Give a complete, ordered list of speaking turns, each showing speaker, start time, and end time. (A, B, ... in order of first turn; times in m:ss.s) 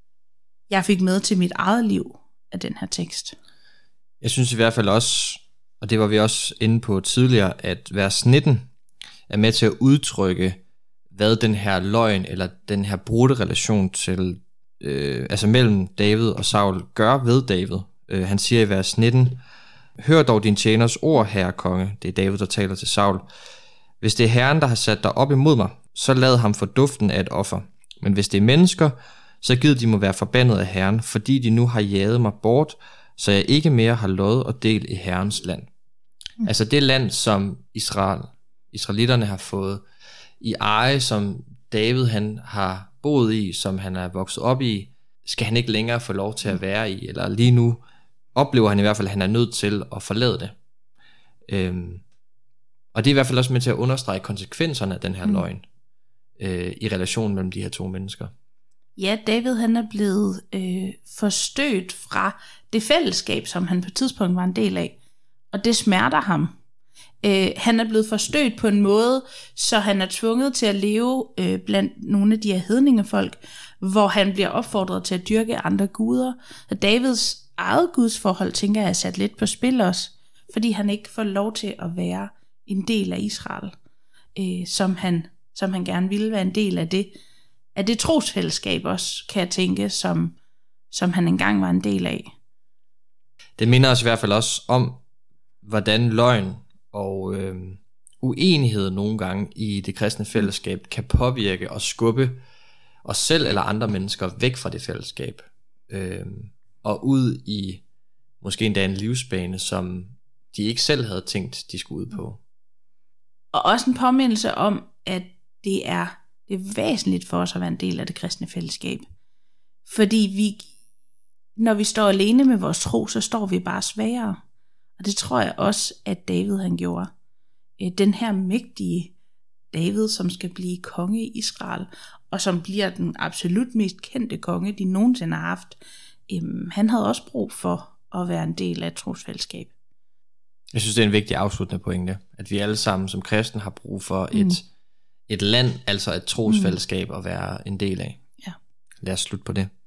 0:00.7-0:03.4 A
0:04.2-0:08.7 B
0:09.3-0:10.6 B
0:11.1-0:19.4 B
0:20.0-0:23.2 B
0:24.0-0:35.7 B
0:36.4-0:39.8 B
0:40.4-0:47.8 B
0:48.3-0:50.5 B
0:51.5-0:52.0 B
0:52.9-0:55.6 B
0:56.4-0:58.3 B
0:59.0-1:05.0 A
1:05.5-1:06.5 A
1:07.2-1:23.7 A
1:24.4-1:27.1 A
1:27.7-1:30.4 A
1:30.9-1:32.3 A
1:33.6-1:35.0 B
1:35.6-1:42.4 B
1:43.0-1:47.8 B
1:48.4-1:52.4 B
1:53.5-1:59.0 A
1:59.8-2:00.7 A
2:01.6-2:04.4 A
2:05.0-2:07.1 A
2:07.8-2:09.1 A
2:09.7-2:15.8 A
2:16.3-2:19.7 A
2:20.7-2:24.6 B
2:24.3-2:24.6 A
2:25.3-2:28.2 B
2:26.5-2:26.8 A
2:29.0-2:29.7 B